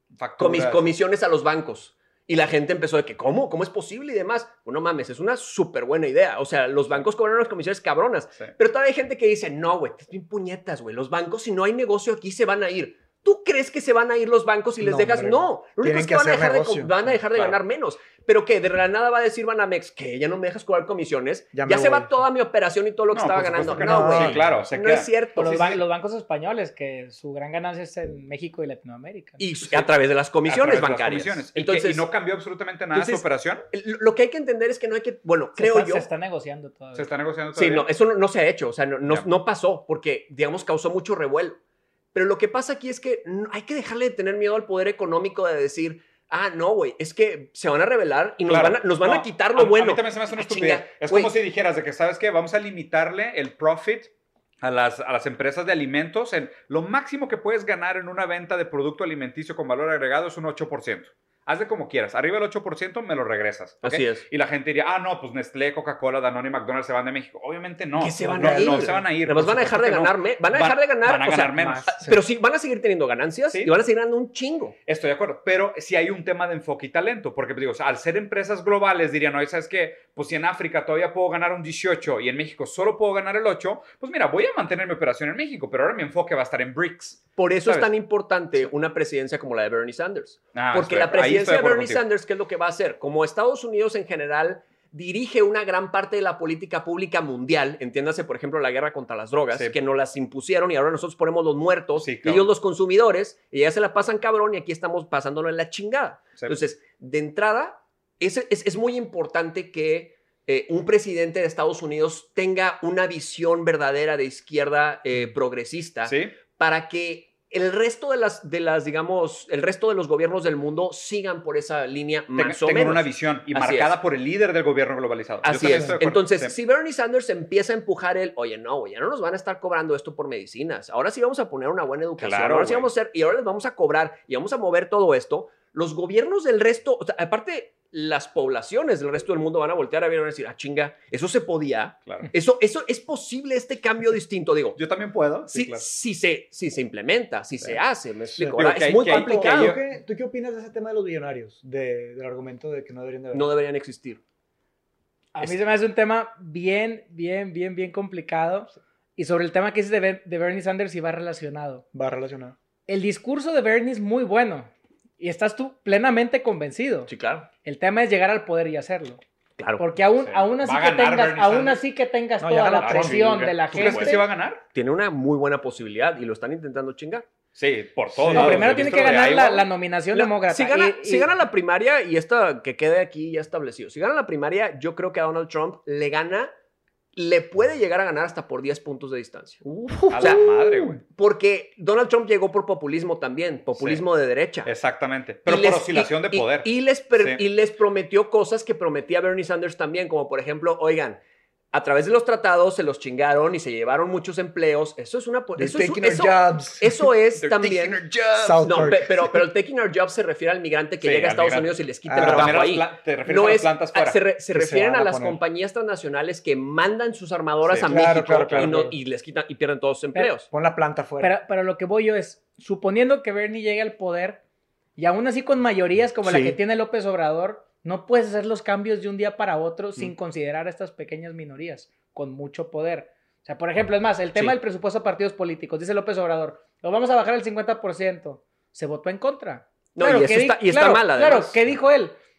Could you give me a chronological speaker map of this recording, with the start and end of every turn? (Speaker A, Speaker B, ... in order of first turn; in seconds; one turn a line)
Speaker A: 0.2-0.9
Speaker B: 0.4-25.8
Speaker C: 14.8-17.0
Speaker C: 21.5-22.1
Speaker A: 23.1-25.8
Speaker C: 23.7-24.6
Speaker D: 25.4-29.4
Speaker B: 29.4-32.1
Speaker A: 30.5-33.6
Speaker B: 32.9-36.1
Speaker D: 35.5-37.1
Speaker A: 37.0-37.9
Speaker B: 37.6-41.6
Speaker B: 42.1-51.3
Speaker A: 48.5-54.1
Speaker A: 54.6-72.0
Speaker B: 63.8-64.3
Speaker B: 68.0-74.8
Speaker C: 68.2-69.0
Speaker A: 74.9-87.9
Speaker B: 87.4-123.9
Speaker A: 90.5-92.0
Speaker A: 102.0-102.5
Speaker A: 116.1-116.3
Speaker A: 122.4-126.5
Speaker B: 125.4-144.8
Speaker A: 132.2-132.9
Speaker A: 144.8-145.8
Speaker B: 145.5-149.8
Speaker C: 148.3-153.5
Speaker A: 148.6-149.8
Speaker B: 153.3-154.2
Speaker D: 155.3-161.8
Speaker C: 161.9-162.6
Speaker D: 162.9-167.1
Speaker B: 167.1-167.5
Speaker D: 167.6-169.2
Speaker D: 169.8-174.3
Speaker A: 170.2-171.8
Speaker C: 172.4-173.4
Speaker A: 172.8-174.6
Speaker B: 173.7-177.3
Speaker A: 177.6-179.7
Speaker C: 178.1-178.8
Speaker D: 178.3-181.3
Speaker B: 180.1-186.5
Speaker B: 187.1-190.4
Speaker C: 189.7-191.0
Speaker A: 190.1-191.0
Speaker B: 191.0-194.7
Speaker A: 193.8-194.0
Speaker A: 194.7-196.7
Speaker B: 195.5-201.2
Speaker B: 201.7-208.0
Speaker C: 205.6-207.1
Speaker A: 207.4-209.0
Speaker C: 208.3-209.4
Speaker B: 208.6-220.5
Speaker A: 211.0-214.2
Speaker C: 212.1-212.6
Speaker C: 214.5-215.4
Speaker A: 217.7-218.8
Speaker C: 217.8-218.9
Speaker C: 220.5-221.3
Speaker D: 221.2-224.4
Speaker D: 225.0-242.2
Speaker B: 226.2-226.6
Speaker B: 240.0-241.7